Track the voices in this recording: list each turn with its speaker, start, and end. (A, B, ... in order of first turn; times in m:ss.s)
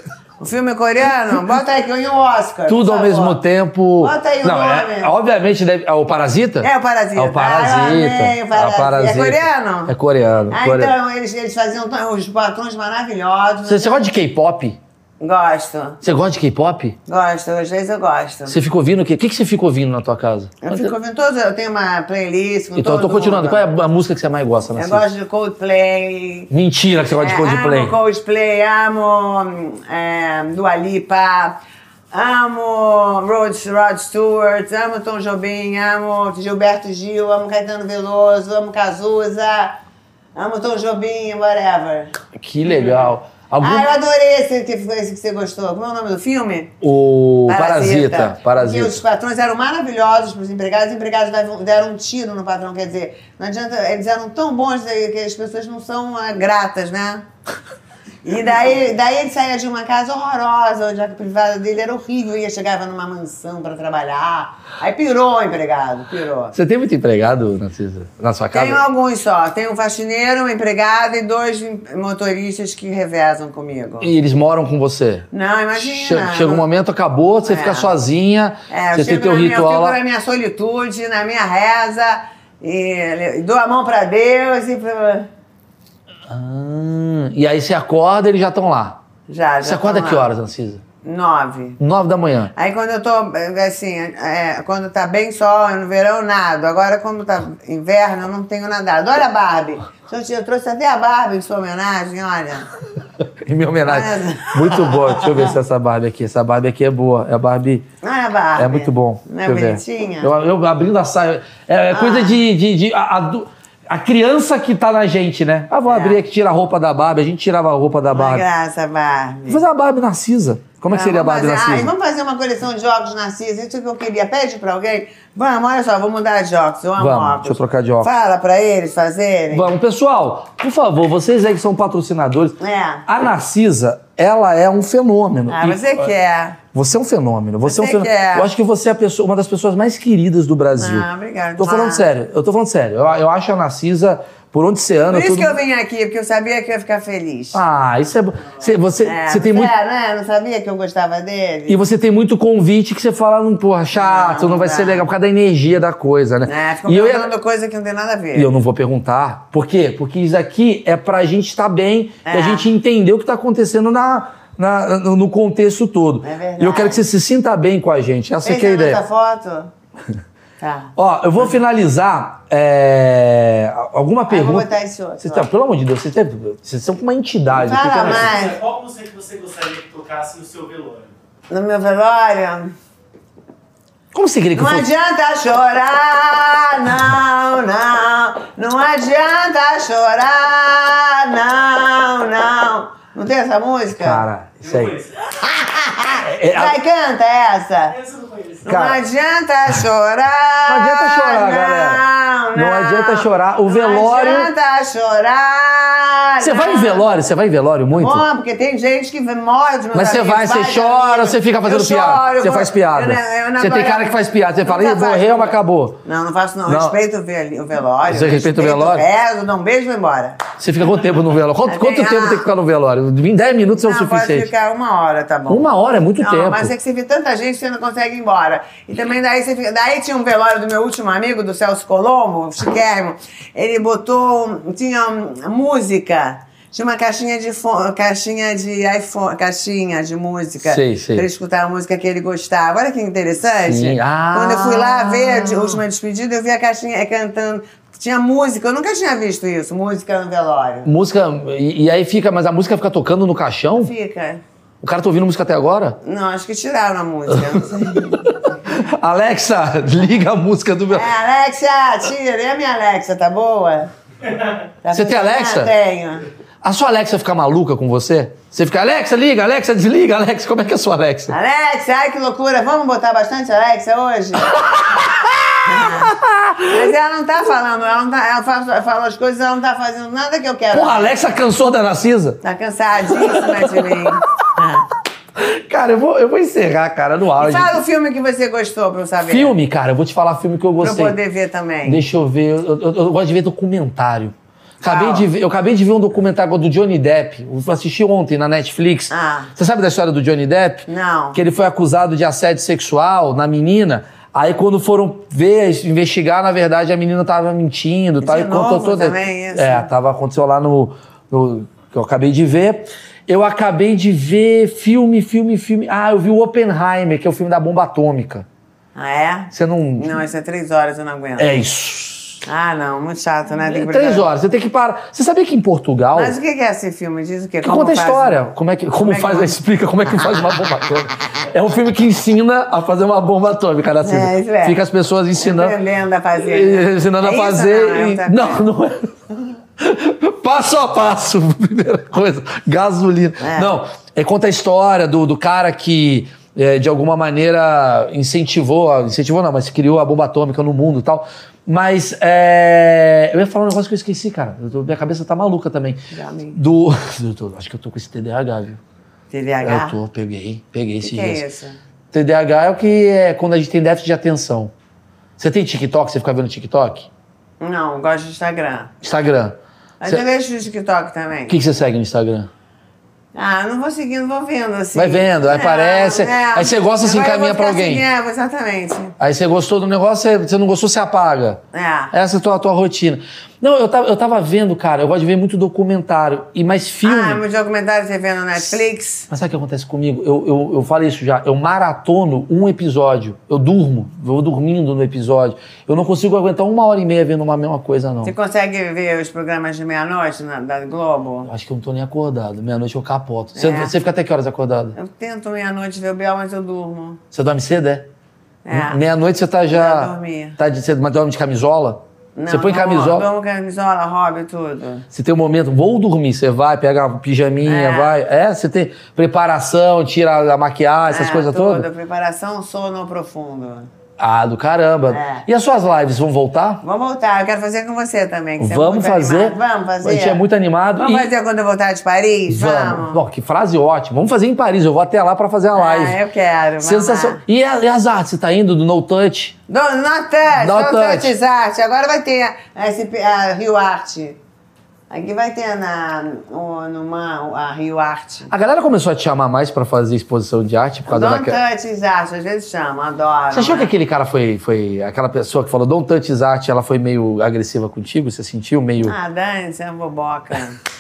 0:00.4-0:03.4 A
0:02.7-0:10.9 B
0:04.0-0:05.1 A
0:06.6-0:10.0 A
0:10.5-0:14.1 A
0:13.7-0:14.8 B
0:15.2-0:16.0 A
0:16.0-0:17.0 B
0:17.1-0:18.6 A
0:18.5-0:20.9 B
0:20.6-0:23.6 A
0:22.8-0:25.0 B
0:24.7-0:26.5 A
0:26.5-0:28.0 B
0:27.2-0:31.6 A
0:32.1-0:39.8 A
0:40.4-0:42.1 A
0:42.4-0:43.9 B
0:43.6-0:46.7 A
0:46.8-0:49.0 B
0:47.5-0:57.2 A
0:58.2-1:06.6 A
1:06.5-1:08.8 B
1:08.5-1:14.1 A
1:14.0-1:20.0 B
1:15.3-1:16.7 A
1:17.4-1:17.9 A
1:18.7-1:25.3 A
1:26.3-1:29.0 B
1:29.3-1:30.3 A
1:29.6-1:30.8 B
1:31.0-1:31.8 A
1:31.8-1:32.5 B
1:32.5-1:42.7 A
1:43.4-1:47.9 B
1:43.9-1:45.6 A
1:48.0-1:50.3 A
1:48.6-1:58.4 B
1:51.9-1:52.4 A
1:55.9-1:56.2 A
1:58.1-1:59.6 A
1:59.5-2:01.9 B
2:00.9-2:09.7 A
2:07.0-2:08.1 B
2:09.5-2:16.1 B
2:12.6-2:13.0 A
2:15.5-2:16.6 A
2:16.7-2:21.1 B
2:17.6-2:18.5 A
2:20.8-2:22.1 A
2:21.6-2:25.6 B
2:25.1-2:27.6 A
2:27.5-2:29.7 B
2:29.0-2:31.8 A
2:31.7-2:37.3 B
2:33.9-2:35.1 A
2:36.4-2:38.5 A
2:38.4-2:49.0 B
2:42.3-2:42.7 A
2:46.2-2:47.0 A
2:48.4-2:49.7 A
2:50.6-2:51.6 A
2:51.0-2:54.7 B
2:54.3-2:55.5 A
2:55.2-2:58.3 B
2:57.5-2:58.6 A
2:58.2-3:01.1 C
3:01.5-3:02.7 A
3:04.1-3:04.9 B
3:04.5-3:14.2 A
3:13.9-3:15.0 B
3:14.6-3:15.3 C
3:15.2-3:18.0 A
3:16.2-3:16.8 B
3:17.9-3:18.7 C
3:18.6-3:27.2 A
3:18.7-3:19.0 B
3:20.7-3:22.0 B
3:22.5-3:24.5 B
3:26.4-3:28.2 B
3:27.9-3:40.4 A
3:29.9-3:36.0 B
3:36.7-3:37.0 B
3:38.1-3:39.0 B
3:40.6-3:44.5 B
3:41.6-3:42.5 A
3:43.8-4:10.9 A
3:45.5-3:46.7 B
4:00.6-4:01.3 B
4:03.7-4:05.8 B
4:10.8-4:13.9 B
4:13.7-4:14.4 A
4:14.8-4:16.0 B
4:16.0-4:18.7 A
4:17.5-4:21.1 B
4:20.9-4:23.9 A
4:24.8-4:26.3 A
4:24.9-4:25.7 B
4:26.6-4:31.4 B
4:31.3-4:34.7 A
4:34.9-4:36.8 B
4:35.7-4:36.1 A
4:36.7-4:41.5 A
4:40.7-4:42.4 B
4:42.4-4:44.8 A
4:43.2-4:44.1 B
4:45.4-4:47.8 B
4:47.4-4:49.5 A
4:49.2-4:51.2 B
4:50.8-4:52.0 A
4:51.8-5:18.5 B
4:54.8-4:55.3 A
4:59.1-4:59.5 A
5:00.9-5:01.4 A
5:08.2-5:09.9 A
5:19.0-5:21.6 A
5:19.5-5:20.2 B
5:21.4-5:22.4 B
5:22.4-5:24.3 A
5:23.7-5:26.4 B
5:26.1-5:29.6 A
5:27.6-5:35.8 B
5:34.0-5:34.8 A
5:35.4-5:38.7 A
5:36.5-5:39.2 B
5:39.8-5:56.0 B
5:43.4-5:43.7 A
5:56.1-5:56.6 A
5:56.5-5:58.8 B
5:59.3-6:00.0 A
5:59.6-6:01.4 B
6:01.0-6:01.8 A
6:02.1-6:04.7 B
6:05.4-6:07.1 B
6:07.6-6:08.9 A
6:09.0-6:10.2 B
6:10.0-6:11.6 A
6:11.5-6:12.5 B
6:13.3-6:19.2 A
6:15.0-6:18.0 B
6:19.2-6:21.6 B
6:21.7-6:22.1 A
6:22.1-6:27.4 B
6:27.0-6:29.3 A
6:29.3-6:38.3 B
6:38.2-6:41.5 A
6:41.4-6:45.0 B
6:43.6-6:43.9 A
6:45.0-6:47.2 A
6:47.3-6:48.1 B
6:48.6-6:49.0 A
6:48.7-6:53.3 B
6:49.7-6:50.6 A
6:52.4-6:55.1 A
6:55.1-7:01.9 B
6:57.6-6:58.2 A
7:01.1-7:03.9 A
7:04.2-7:06.8 B
7:05.1-7:05.5 A
7:06.8-7:10.4 A
7:08.6-7:11.3 B
7:11.0-7:13.2 A
7:12.5-7:16.2 B
7:15.7-7:17.4 A
7:16.8-7:19.6 B
7:19.7-7:24.4 A
7:20.5-7:21.3 B
7:25.1-7:28.5 A
7:28.5-7:31.6 B
7:31.1-7:33.9 A
7:33.5-7:39.2 B
7:39.0-7:40.8 A